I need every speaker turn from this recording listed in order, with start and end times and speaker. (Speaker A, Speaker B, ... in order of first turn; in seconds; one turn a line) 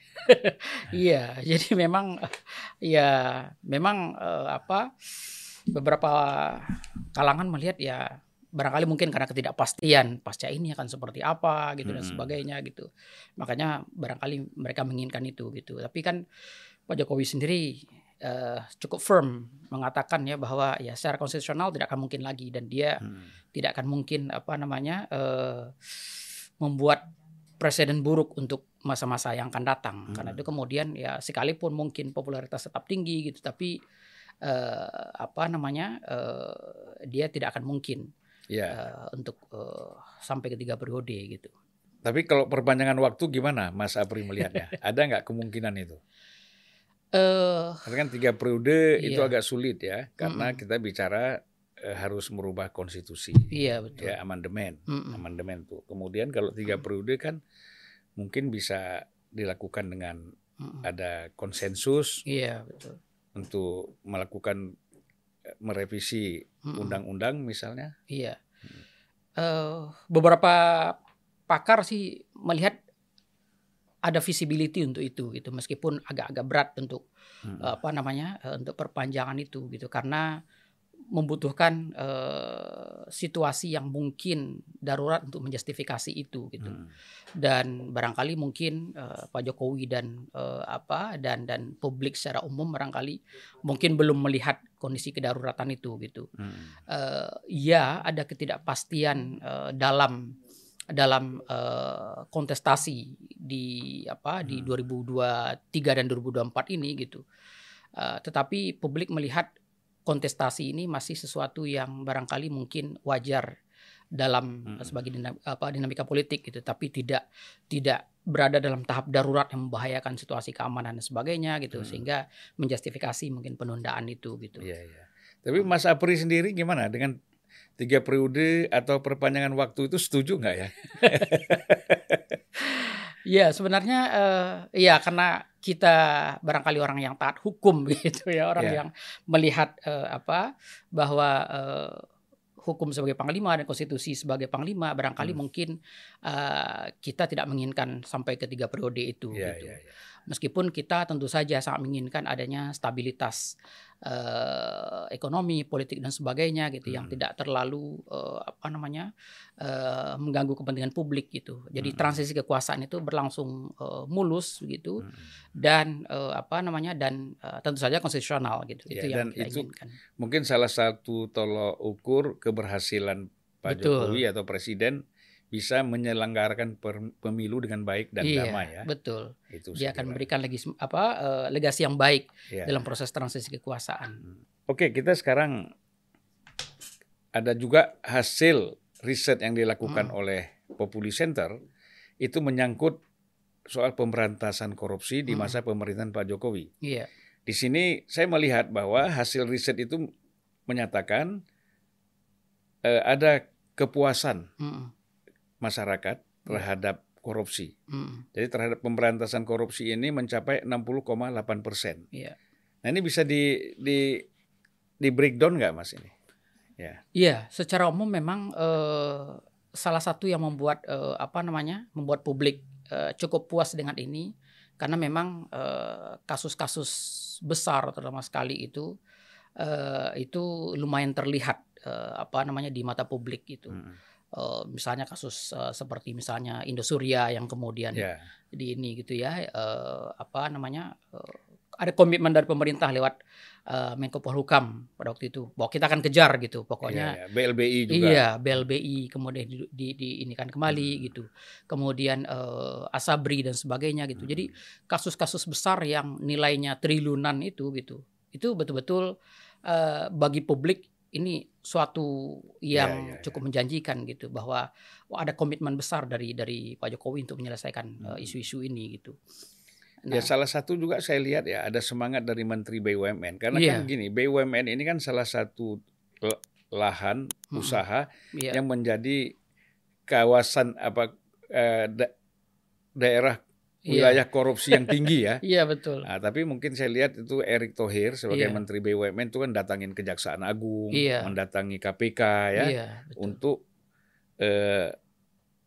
Speaker A: 0.2-16.2
Speaker B: 11.8-12.4
Speaker A: 16.9-23.0
Speaker A: 23.5-27.0
Speaker A: 27.6-33.8
Speaker B: 30.1-30.4
Speaker A: 34.4-38.1
Speaker B: 38.5-38.8
Speaker A: 38.7-41.5
Speaker B: 42.0-46.0
Speaker A: 47.1-47.9
Speaker B: 47.8-57.4
Speaker A: 49.0-49.3
Speaker A: 50.2-50.6
Speaker A: 53.5-54.1
Speaker A: 54.9-55.2
Speaker B: 58.2-60.2
Speaker A: 60.6-60.9
Speaker B: 60.8-62.2
Speaker A: 62.3-63.0
Speaker B: 63.3-64.7
Speaker B: 65.5-67.9
Speaker A: 66.7-67.0
Speaker A: 68.1-68.4
Speaker A: 69.4-71.0
Speaker A: 71.5-72.8
Speaker A: 74.0-77.0
Speaker A: 77.6-80.3
Speaker A: 81.1-86.8
Speaker A: 87.4-96.3
Speaker B: 96.4-96.7
Speaker A: 96.9-100.3
Speaker A: 100.9-107.2
Speaker B: 104.5-104.7
Speaker A: 108.0-109.5
Speaker A: 110.0-113.5
Speaker A: 114.2-124.7
Speaker B: 121.7-122.0
Speaker B: 124.6-127.2
Speaker B: 127.8-132.3
Speaker A: 131.0-131.4
Speaker A: 132.6-142.0
Speaker A: 142.6-145.7
Speaker A: 146.2-153.4
Speaker B: 149.3-149.9
Speaker A: 154.0-159.1
Speaker B: 156.9-157.1
Speaker A: 159.6-170.0
Speaker B: 161.8-162.2
Speaker B: 168.9-169.7
Speaker B: 170.2-175.0
Speaker A: 173.7-174.2
Speaker B: 175.5-178.9
Speaker A: 178.2-184.2
Speaker B: 179.5-180.2
Speaker B: 182.5-182.8
Speaker B: 184.7-185.7
Speaker B: 187.3-191.6
Speaker A: 189.8-190.1
Speaker B: 192.2-193.0
Speaker B: 193.7-196.7
Speaker A: 195.3-195.6
Speaker A: 196.8-197.1
Speaker B: 197.5-200.1
Speaker B: 200.7-201.4
Speaker B: 202.8-204.5
Speaker A: 204.6-204.9
Speaker B: 205.6-207.7
Speaker A: 207.9-208.2
Speaker B: 208.3-212.0
Speaker B: 212.8-214.2
Speaker B: 215.0-216.1
Speaker A: 217.1-224.3
Speaker A: 224.8-228.9
Speaker A: 229.6-233.8
Speaker B: 233.7-234.0
Speaker A: 234.3-243.1
Speaker B: 237.9-238.2
Speaker A: 243.7-247.2
Speaker B: 246.8-248.2
Speaker A: 247.9-259.1
Speaker A: 259.6-269.1
Speaker B: 262.7-263.3
Speaker A: 270.1-270.3
Speaker B: 270.1-279.3
Speaker A: 273.5-273.9
Speaker A: 277.5-277.8
Speaker A: 278.3-278.6
Speaker B: 280.1-282.1
Speaker B: 283.0-285.4
Speaker A: 283.9-286.1
Speaker B: 286.0-293.6
Speaker A: 288.3-288.6
Speaker A: 290.9-291.3
Speaker A: 292.6-293.4
Speaker B: 294.4-294.9